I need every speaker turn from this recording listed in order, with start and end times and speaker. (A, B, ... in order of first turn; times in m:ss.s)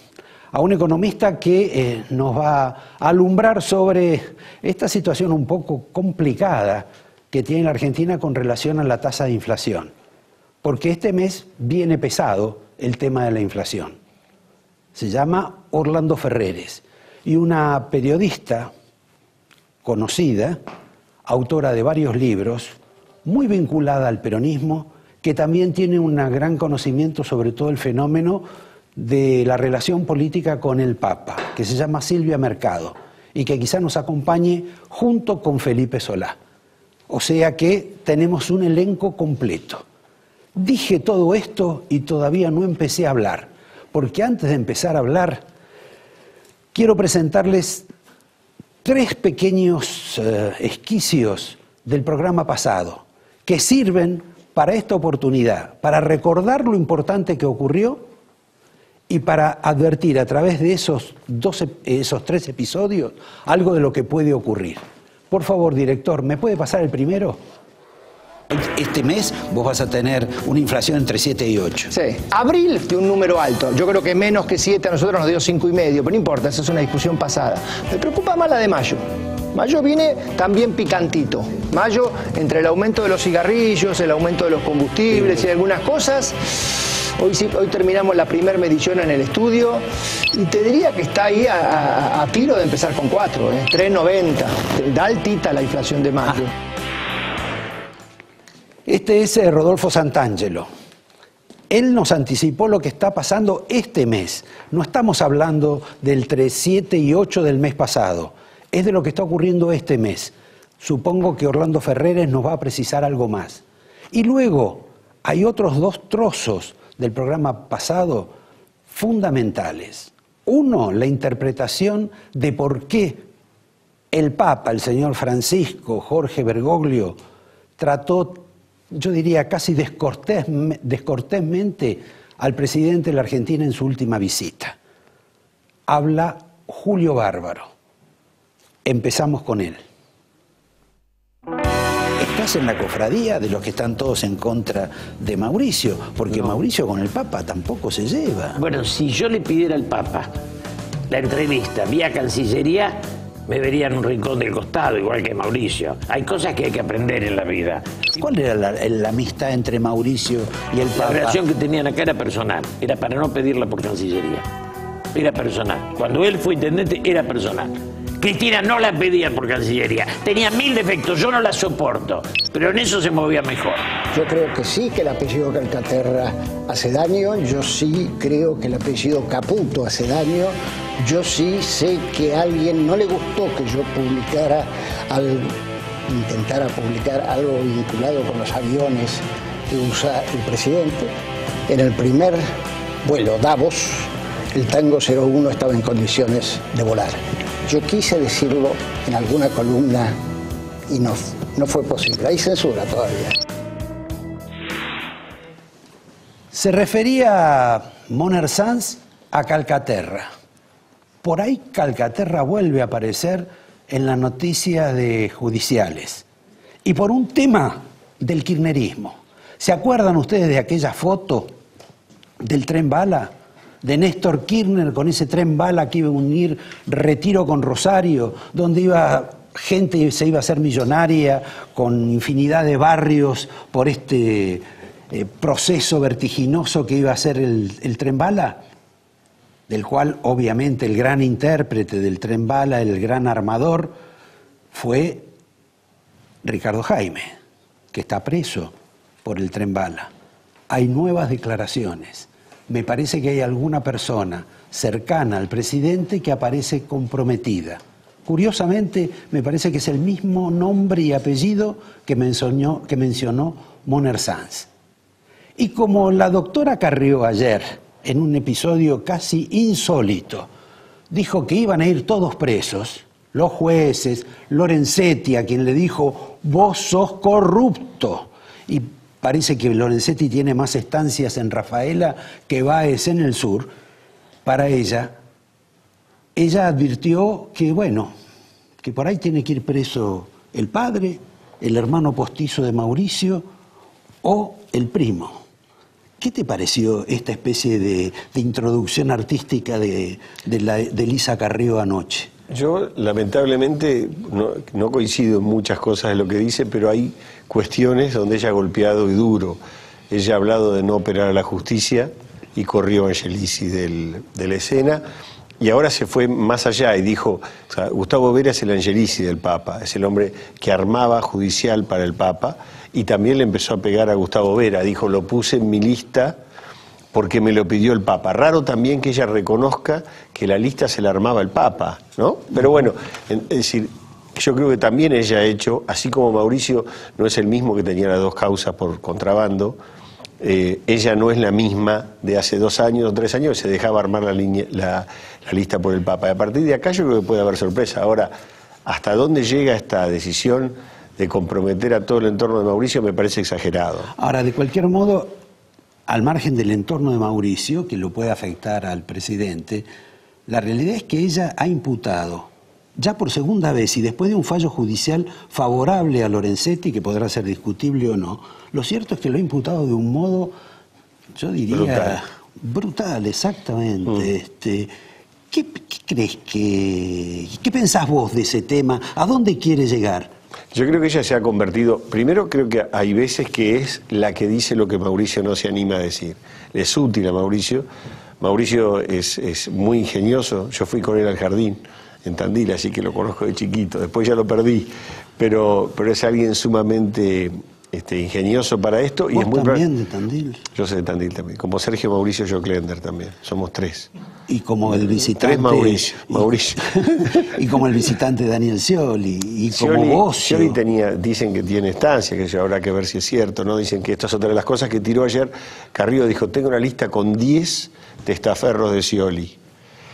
0:00.5-0:09.9 A
0:10.6-0:14.0 A
0:14.9-0:18.7 A
0:19.8-0:20.6 A
0:21.2-0:36.4 A
0:37.1-0:39.8 A
0:40.5-0:45.4 A
0:46.7-0:47.9 A
0:48.8-0:58.0 A
0:59.1-1:07.4 A
1:08.5-1:11.9 A
1:11.9-1:19.0 B
1:19.5-1:36.5 B
1:38.8-1:40.7 A
1:41.7-1:58.3 A
1:58.9-2:03.2 A
2:04.1-2:07.2 A
2:07.8-2:14.8 A
2:15.9-2:17.7 A
2:18.8-2:19.8 A
2:22.2-2:28.6 A
2:28.6-2:30.3 C
2:31.1-2:37.8 C
2:38.2-2:41.4 A
2:40.9-2:44.4 C
2:45.1-2:53.9 C
2:54.1-3:05.6 D
3:06.1-3:11.1 D
3:11.7-3:12.4 D
3:13.0-3:20.2 D
3:20.9-3:23.4 D
3:26.5-3:30.3 A
3:31.2-3:36.2 A
3:36.8-3:41.5 A
3:42.4-3:58.6 A
3:59.7-4:03.9 A
4:04.7-4:05.3 A
4:06.4-4:07.3 A
4:07.9-4:10.1 A
4:10.7-4:24.7 A
4:25.6-4:30.5 A
4:31.1-4:43.7 A
4:44.4-4:45.1 A
4:46.3-4:48.1 A
4:48.8-4:53.4 A
4:54.2-4:55.4 A
4:56.2-5:02.3 A
5:02.5-5:09.6 E
5:10.1-5:15.0 E
5:15.6-5:26.4 E
5:27.1-5:39.8 E
5:40.4-5:48.3 E
5:48.8-5:54.1 E
5:54.2-5:55.3 A
5:56.1-5:59.9 A
6:00.5-6:10.5 A
6:11.3-6:14.9 A
6:11.7-6:12.2 E
6:15.5-6:20.3 A
6:20.7-6:27.9 E
6:28.4-6:39.8 E
6:39.3-6:40.6 A
6:40.7-6:44.1 E
6:44.5-6:50.8 A
6:45.2-6:47.5 E
6:49.7-6:59.6 E